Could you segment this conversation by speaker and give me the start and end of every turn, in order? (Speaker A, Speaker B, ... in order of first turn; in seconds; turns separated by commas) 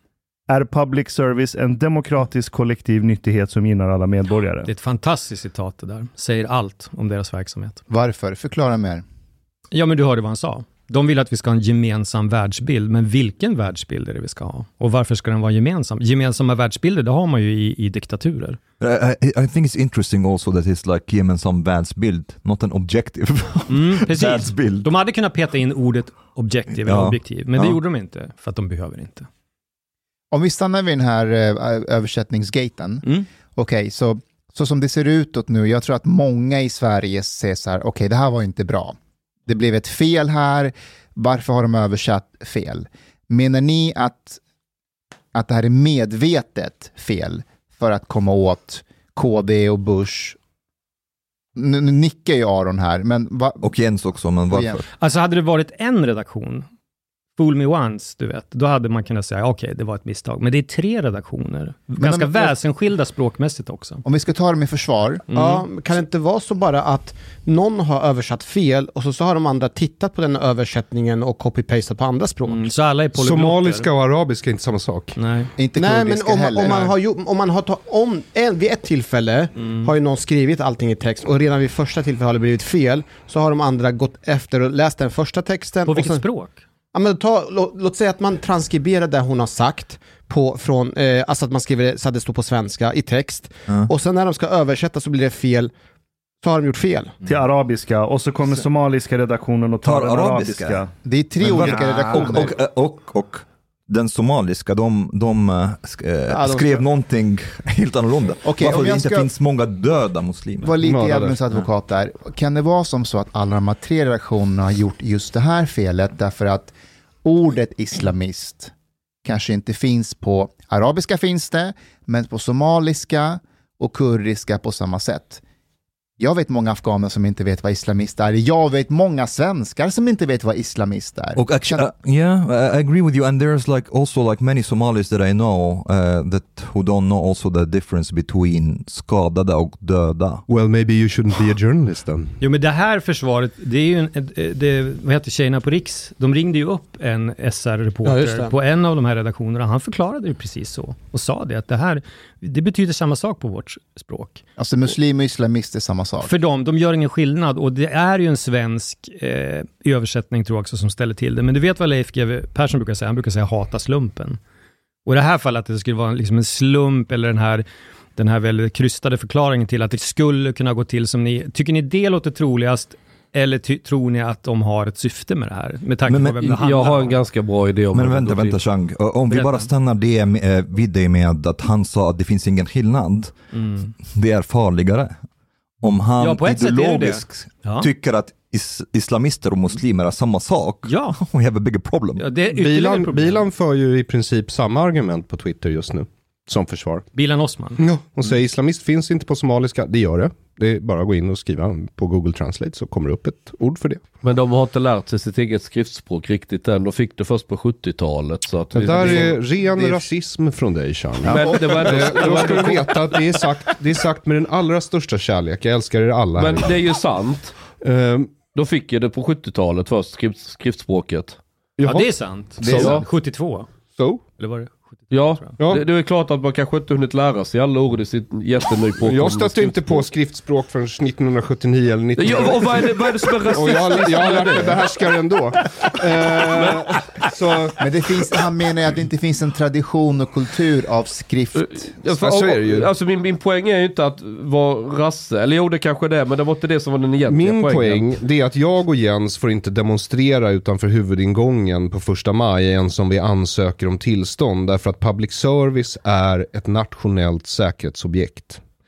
Speaker A: 0.5-4.7, Speaker B: 4.7-7.8, Speaker C: 7.9-9.0, Speaker B: 9.7-18.6, Speaker D: 18.8-24.9, Speaker B: 23.7-29.3, Speaker D: 26.7-27.8, Speaker C: 30.3-39.0, Speaker C: 39.5-44.4, Speaker C: 45.3-50.4, Speaker C: 51.6-53.8, Speaker D: 53.6-54.9, Speaker C: 54.5-54.8, Speaker B: 55.0-56.7, Speaker B: 57.4-64.0, Speaker C: 62.0-62.6, Speaker C: 64.0-65.2, Speaker B: 65.3-65.7, Speaker E: 65.3-72.6, Speaker B: 72.5-73.9, Speaker F: 73.2-75.2, Speaker B: 75.2-75.5, Speaker C: 75.6-76.9, Speaker E: 75.8-86.3, Speaker B: 79.6-79.9, Speaker B: 85.9-86.6, Speaker E: 86.9-95.7, Speaker E: 96.4-97.2, Speaker A: 97.2-100.9, Speaker D: 99.8-100.8, Speaker C: 101.0-102.6, Speaker D: 101.4-110.8, Speaker A: 101.6-102.5, Speaker C: 106.4-106.7, Speaker C: 108.4-109.3, Speaker C: 110.6-118.7, Speaker F: 110.8-111.3, Speaker C: 119.2-125.4, Speaker C: 126.2-131.9, Speaker D: 131.4-140.4, Speaker F: 140.5-142.3, Speaker B: 142.4-154.4, Speaker E: 148.1-148.5, Speaker C: 154.6-156.3, Speaker B: 156.2-164.4, Speaker B: 165.1-177.2, Speaker D: 176.1-176.6, Speaker G: 176.4-178.6, Speaker D: 177.9-183.3, Speaker B: 179.3-179.7, Speaker B: 183.5-183.9, Speaker D: 184.1-185.2, Speaker D: 185.8-192.3, Speaker B: 186.2-187.9, Speaker B: 190.9-191.2, Speaker B: 192.2-193.4, Speaker F: 192.5-197.1, Speaker B: 197.1-197.8, Speaker F: 197.8-204.1, Speaker G: 204.2-209.4, Speaker F: 208.7-216.8, Speaker G: 211.2-213.2, Speaker G: 216.4-217.6, Speaker F: 217.8-218.3, Speaker G: 218.5-221.4, Speaker F: 221.8-222.1, Speaker B: 221.8-223.7, Speaker D: 222.6-222.9, Speaker F: 222.6-223.0, Speaker G: 222.7-223.0, Speaker F: 224.0-224.2, Speaker B: 224.4-225.6, Speaker G: 225.1-230.1, Speaker F: 225.6-225.9, Speaker F: 229.0-237.8, Speaker G: 232.2-234.8, Speaker C: 237.8-241.9, Speaker G: 241.6-248.1, Speaker F: 242.1-242.9, Speaker F: 247.3-258.6